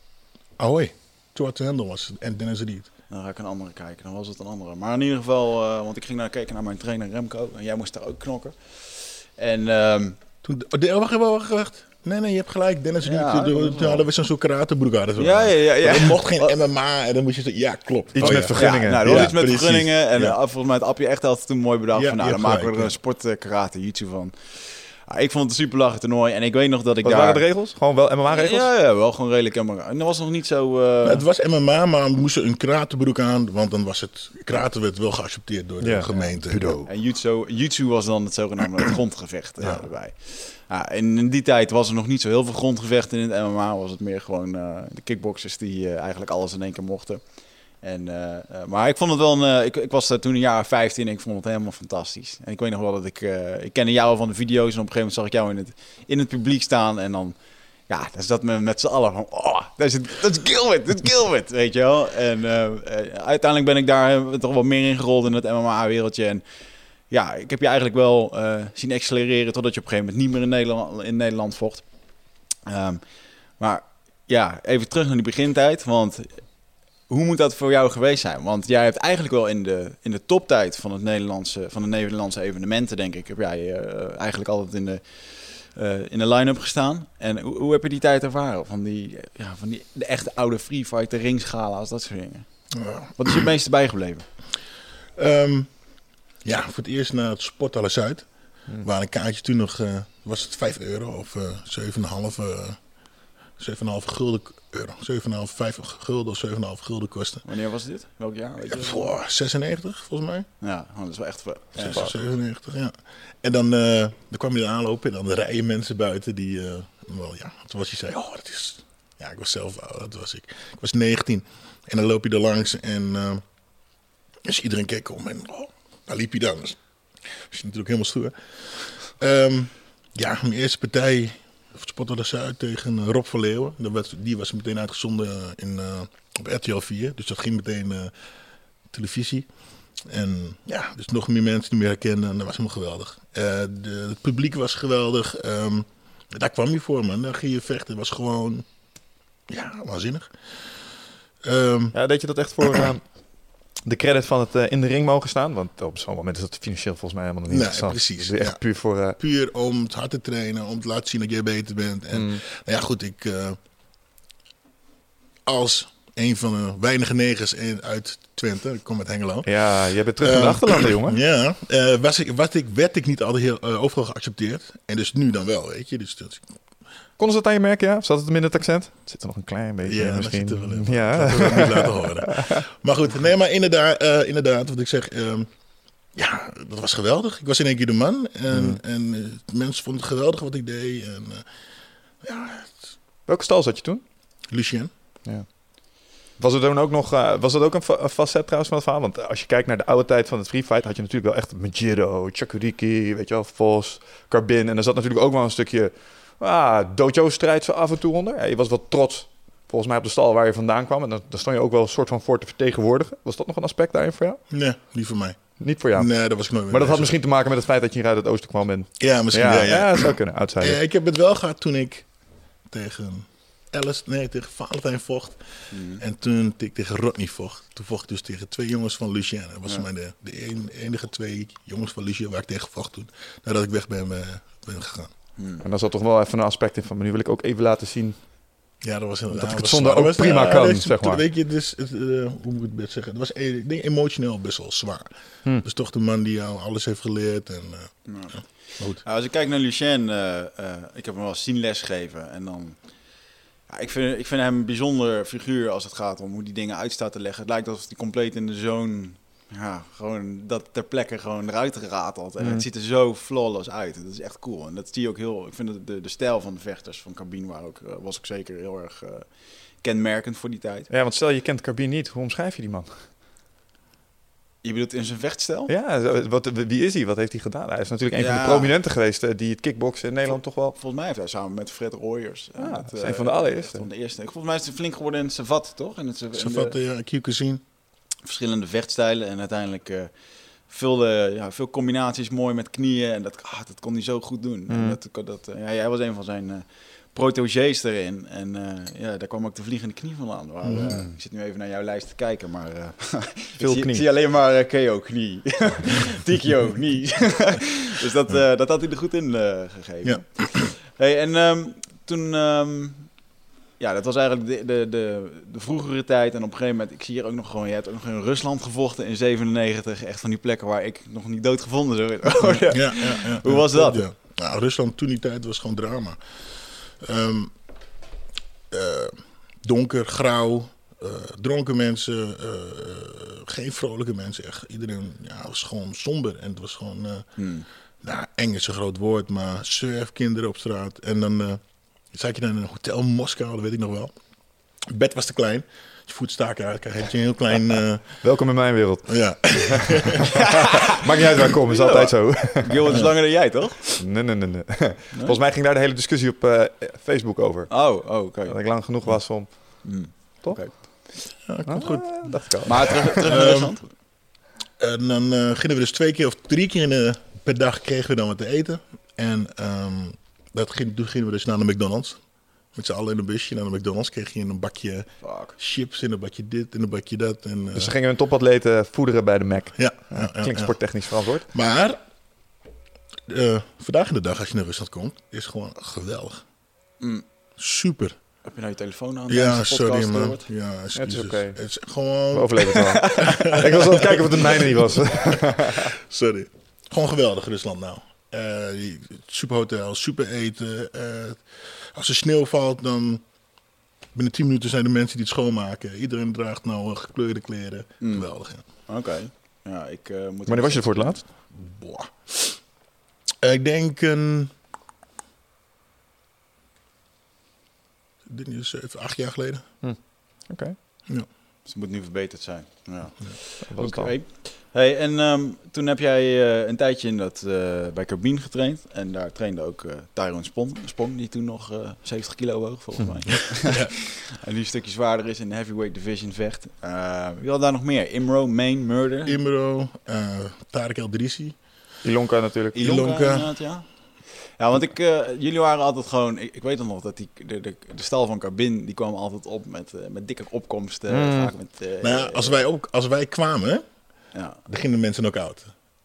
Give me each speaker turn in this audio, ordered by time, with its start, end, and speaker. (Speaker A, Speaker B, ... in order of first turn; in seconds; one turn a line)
Speaker A: 0.6-2.9
Speaker B: 3.1-10.2
Speaker A: 10.4-20.4
Speaker B: 13.0-14.1
Speaker B: 15.2-16.5
Speaker C: 18.1-19.3
Speaker B: 18.3-27.4
Speaker A: 21.9-22.9
Speaker C: 27.0-28.7
Speaker B: 28.3-31.2
Speaker A: 31.0-36.8
Speaker C: 35.8-36.9
Speaker B: 36.9-92.5
Speaker A: 39.6-39.9
Speaker A: 92.7-93.5
Speaker B: 93.2-94.3
Speaker A: 95.2-95.8
Speaker A: 96.4-102.8
Speaker A: 103.6-107.4
Speaker B: 107.4-109.1
Speaker A: 108.7-110.5
Speaker B: 110.6-112.1
Speaker A: 111.8-123.4
Speaker A: 124.4-126.8
Speaker A: 127.5-138.1
Speaker A: 138.9-139.5
Speaker A: 140.0-148.7
Speaker A: 149.5-150.3
Speaker A: 151.4-151.9
Speaker C: 151.9-153.1
Speaker A: 152.6-152.9
Speaker C: 153.8-159.2
Speaker A: 157.5-158.6
Speaker A: 159.1-163.6
Speaker C: 162.1-162.4
Speaker A: 165.4-169.5
Speaker C: 169.4-171.2
Speaker A: 170.2-176.5
Speaker C: 177.2-182.6
Speaker A: 179.8-185.5
Speaker A: 186.1-191.4
Speaker C: 188.5-188.8
Speaker A: 192.2-192.9
Speaker C: 193.3-194.0
Speaker A: 194.5-194.9
Speaker C: 195.2-195.6
Speaker C: 196.4-214.4
Speaker A: 214.5-217.1
Speaker C: 215.6-220.8
Speaker A: 219.0-222.1
Speaker A: 222.7-235.1
Speaker B: 225.7-226.0
Speaker B: 235.4-235.6
Speaker C: 235.6-238.2
Speaker A: 238.8-245.1
Speaker C: 239.3-241.2
Speaker A: 245.6-249.0
Speaker B: 248.1-270.9
Speaker C: 262.4-262.6
Speaker C: 270.9-273.1
Speaker B: 274.6-275.7
Speaker C: 275.7-280.8
Speaker B: 278.2-278.7
Speaker B: 280.3-286.7
Speaker C: 282.6-283.8
Speaker A: 286.3-287.6
Speaker B: 288.2-313.2
Speaker C: 294.7-295.0
Speaker A: 300.6-301.1
Speaker C: 303.6-304.0
Speaker A: 310.0-310.7
Speaker B: 313.8-324.0
Speaker A: 322.6-327.5
Speaker A: 328.7-337.3
Speaker B: 337.4-337.7
Speaker A: 338.0-344.1
Speaker A: 344.9-348.2
Speaker C: 348.2-353.2
Speaker A: 349.1-350.3
Speaker B: 350.4-350.9
Speaker B: 351.6-354.0
Speaker C: 354.0-361.1
Speaker B: 357.7-358.5
Speaker B: 359.8-361.1
Speaker A: 361.4-363.7
Speaker C: 361.7-363.3
Speaker B: 362.6-363.9
Speaker A: 364.8-372.2
Speaker A: 372.7-377.9
Speaker B: 375.2-375.6
Speaker C: 377.7-381.5
Speaker A: 379.8-380.9
Speaker A: 381.4-382.0
Speaker A: 383.3-386.4
Speaker B: 387.0-387.2
Speaker A: 387.6-388.1
Speaker B: 388.4-390.5
Speaker A: 389.3-403.2
Speaker C: 390.9-391.6
Speaker C: 392.3-395.9
Speaker B: 392.6-394.1
Speaker A: 404.1-408.6
Speaker B: 408.0-411.2
Speaker C: 410.5-411.2
Speaker A: 411.5-412.6
Speaker A: 413.4-414.5
Speaker A: 418.2-419.6
Speaker C: 419.8-420.8
Speaker B: 421.6-439.4
Speaker C: 423.6-424.1
Speaker A: 433.6-433.9
Speaker A: 439.2-441.6
Speaker C: 442.0-442.8
Speaker B: 442.7-452.6
Speaker A: 442.8-443.5
Speaker C: 451.1-451.5
Speaker A: 452.0-453.8
Speaker B: 454.3-454.6
Speaker A: 454.6-455.7